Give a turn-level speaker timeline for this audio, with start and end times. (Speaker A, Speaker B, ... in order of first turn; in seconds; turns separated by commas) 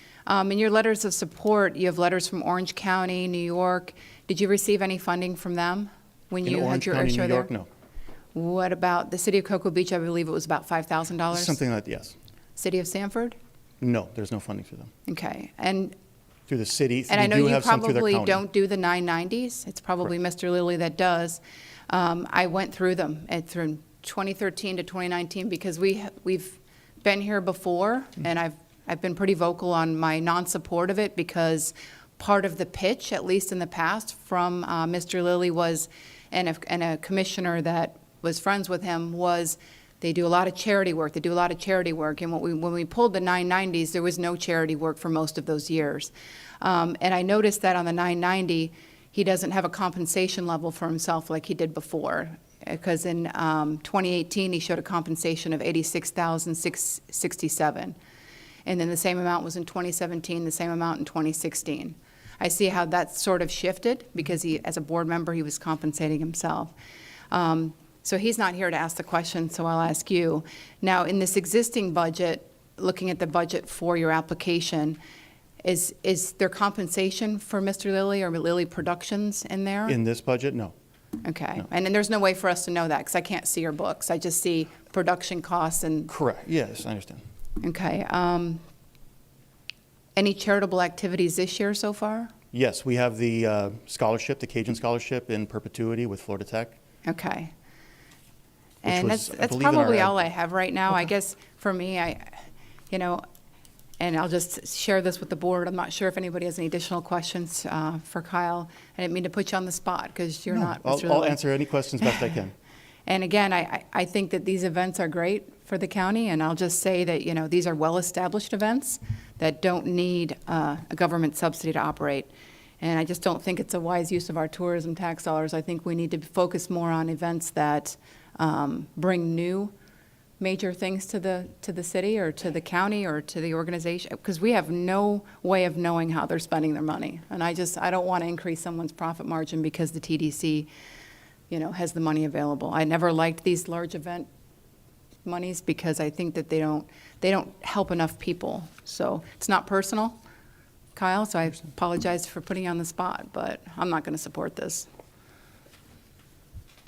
Speaker A: 0.2-7.5, Speaker B: 6.4-7.7, Speaker A: 8.3-11.6, Speaker B: 11.3-12.1, Speaker A: 12.6-13.4, Speaker B: 13.8-14.9, Speaker A: 15.1-15.9, Speaker B: 16.5-18.4, Speaker A: 17.1-58.0, Speaker A: 58.6-66.7, Speaker A: 67.3-75.0, Speaker A: 75.6-80.0, Speaker B: 79.8-80.7, Speaker A: 81.2-86.1, Speaker B: 86.1-87.2, Speaker A: 87.6-88.6, Speaker A: 90.2-92.3, Speaker B: 92.5-96.8, Speaker A: 97.0-97.5, Speaker B: 98.8-100.2, Speaker A: 98.8-103.2, Speaker A: 104.0-111.4, Speaker B: 110.5-112.5, Speaker A: 113.0-129.7, Speaker A: 130.4-140.7, Speaker A: 141.5-144.3, Speaker A: 145.2-150.2, Speaker A: 150.9-154.9